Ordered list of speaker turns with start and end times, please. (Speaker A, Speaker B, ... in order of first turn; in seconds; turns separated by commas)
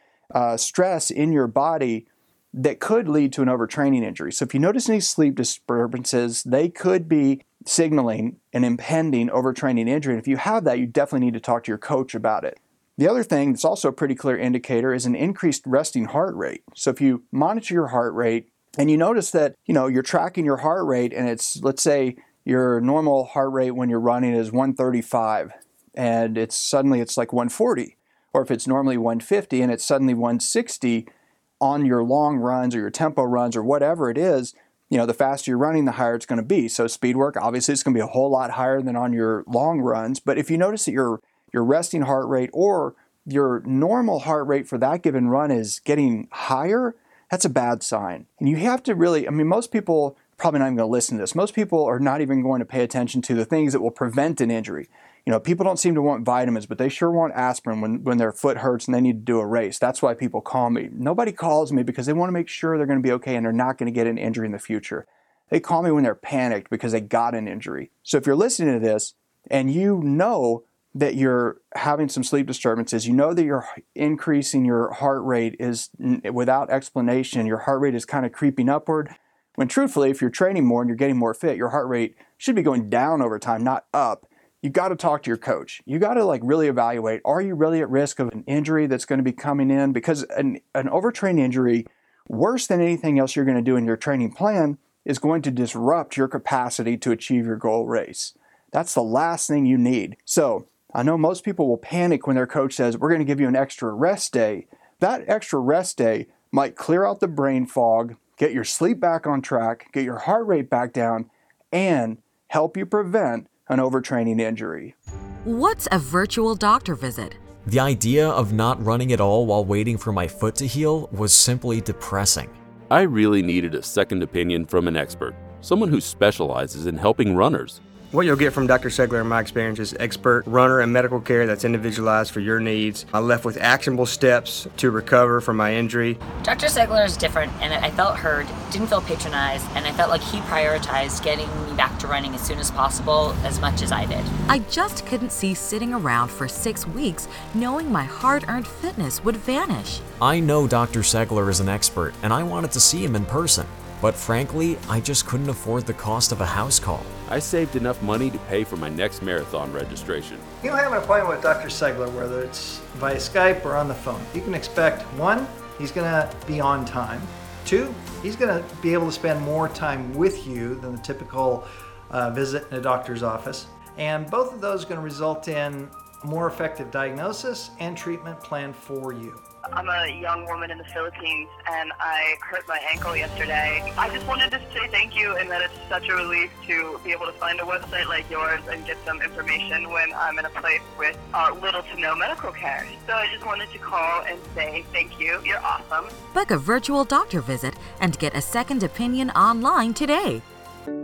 Speaker A: 0.3-31.1, Speaker A: 31.6-114.9, Speaker B: 115.4-117.4, Speaker C: 117.6-122.5, Speaker D: 122.9-127.8, Speaker E: 128.1-136.2, Speaker F: 136.4-144.3, Speaker B: 144.5-150.0, Speaker C: 150.2-157.1, Speaker D: 157.3-160.4, Speaker G: 160.6-179.4, Speaker H: 179.7-196.1, Speaker B: 196.3-200.4